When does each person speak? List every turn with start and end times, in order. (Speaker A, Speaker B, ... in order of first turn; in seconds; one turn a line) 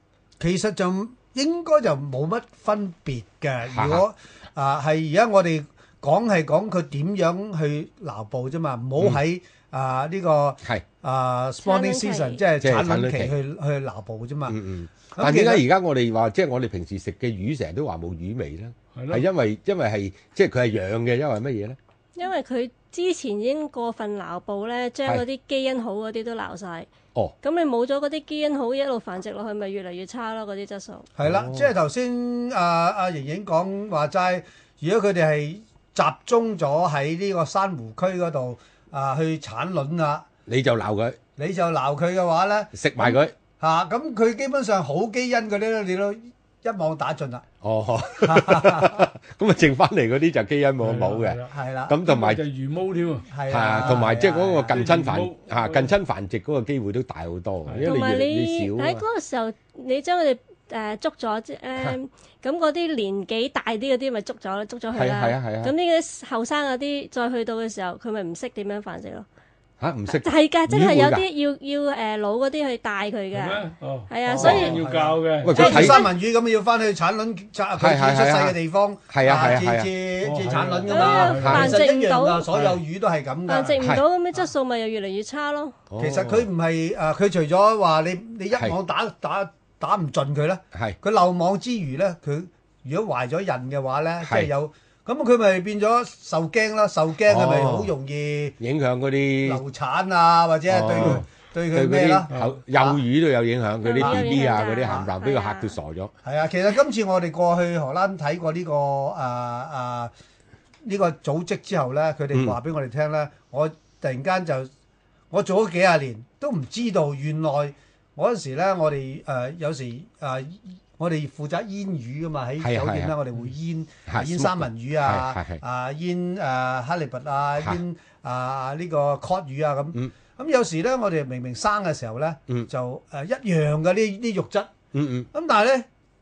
Speaker A: 0.4-14.6
Speaker B: 3.7-4.0
Speaker C: 11.6-12.4
Speaker B: 12.6-13.3
Speaker B: 14.5-21.8
Speaker A: 15.1-15.6
Speaker D: 18.9-19.2
Speaker C: 22.1-26.9
Speaker C: 27.4-31.1
Speaker A: 31.2-40.3
Speaker B: 31.2-31.7
Speaker B: 40.5-41.2
Speaker A: 41.4-47.5
Speaker B: 42.7-43.3
Speaker B: 47.6-52.4
Speaker A: 48.2-49.0
Speaker D: 50.8-51.5
Speaker A: 51.5-52.0
Speaker D: 52.1-53.3
Speaker A: 53.3-54.7
Speaker B: 53.5-59.0
Speaker D: 54.7-55.9
Speaker D: 57.7-57.9
Speaker C: 57.8-69.2
Speaker B: 64.9-65.7
Speaker B: 69.8-71.2
Speaker C: 70.1-74.8
Speaker D: 73.3-75.8
Speaker A: 74.3-83.9
Speaker B: 74.4-74.7
Speaker B: 75.4-76.1
Speaker C: 75.5-76.1
Speaker B: 77.8-78.6
Speaker B: 79.1-79.9
Speaker D: 80.2-81.8
Speaker C: 80.9-82.5
Speaker B: 81.3-81.8
Speaker D: 82.5-82.8
Speaker C: 83.5-85.8
Speaker B: 83.8-84.0
Speaker B: 85.9-86.5
Speaker A: 86.0-98.5
Speaker B: 94.2-94.5
Speaker B: 97.3-97.9
Speaker B: 98.6-99.6
Speaker A: 99.4-103.0
Speaker B: 100.7-106.1
Speaker C: 103.8-105.7
Speaker A: 104.0-105.0
Speaker A: 106.2-110.1
Speaker A: 110.8-114.7
Speaker B: 112.3-112.6
Speaker A: 115.3-134.7
Speaker B: 122.6-123.2
Speaker B: 124.1-125.6
Speaker B: 134.9-135.3
Speaker A: 135.3-135.8